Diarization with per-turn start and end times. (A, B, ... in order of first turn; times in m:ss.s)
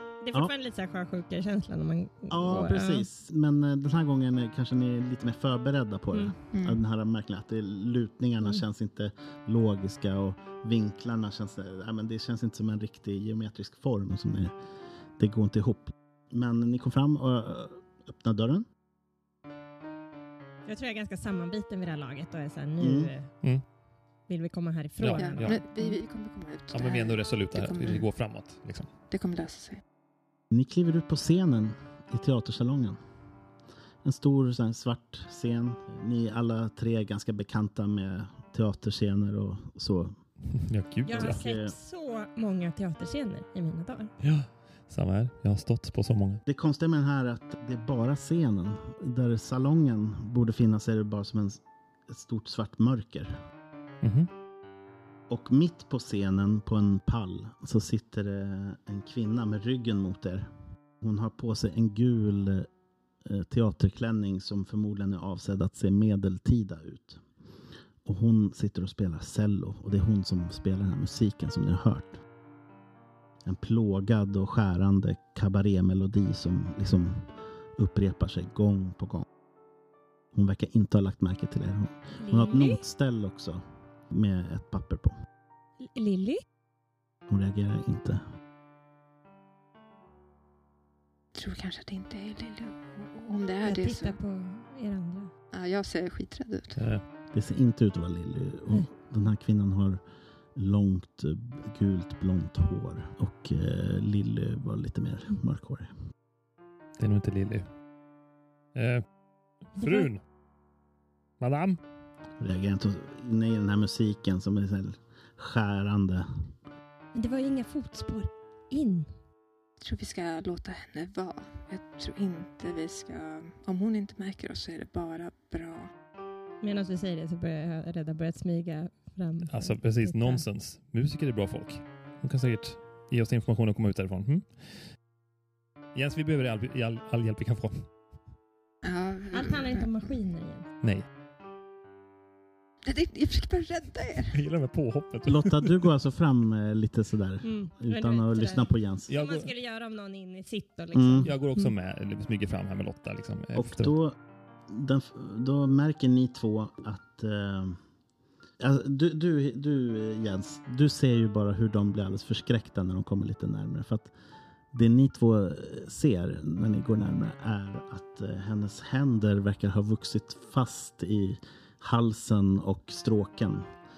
0:00.2-0:03.1 A
0:02.3-0:14.5 B
0:06.5-0:06.8 C
0:15.2-0:18.7 B
0:20.6-0:23.4 A
0:22.8-0:23.1 B
0:24.3-0:26.0 A
0:25.0-0:25.6 D
0:25.2-0:28.1 C
0:26.7-0:28.9 D
0:29.1-0:29.8 C
0:30.5-0:33.0 B
0:34.0-0:40.2 B
0:40.6-0:41.4 D
0:41.1-0:44.1 A
0:41.2-0:41.8 B
0:44.2-0:46.4 D
0:46.5-0:53.4 B
0:54.0-0:54.3 D
0:55.3-1:00.5 B
1:01.0-1:02.7 B
1:03.2-1:07.2 B
1:08.0-1:12.2 B
1:13.4-1:19.3 B
1:20.3-1:25.2 B
1:22.2-1:22.8 A
1:25.8-1:26.4 A
1:27.3-1:28.2 B
1:31.4-1:34.2 C
1:33.6-1:35.3 A
1:35.5-1:36.8 C
1:36.8-1:37.0 D
1:37.3-1:40.0 B
1:40.6-1:45.9 B
1:47.0-1:47.7 D
1:48.8-1:49.0 D
1:49.7-1:50.2 D
1:49.8-1:50.1 A
1:51.4-1:51.8 D
1:52.4-1:56.3 B
1:57.1-1:59.1 A
1:59.8-2:05.9 C
2:06.6-2:10.5 A
2:09.5-2:14.6 D
2:16.0-2:17.9 D
2:18.8-2:19.9 C
2:19.3-2:20.7 A
2:22.8-2:24.4 C
2:24.3-2:25.8 D
2:25.3-2:29.1 B
2:27.4-2:31.7 A
2:29.1-2:29.5 D
2:30.9-2:31.3 B
2:31.2-2:33.9 D
2:33.6-2:34.2 B
2:34.7-2:37.8 B
2:38.6-2:44.1 B
2:44.7-2:53.7 B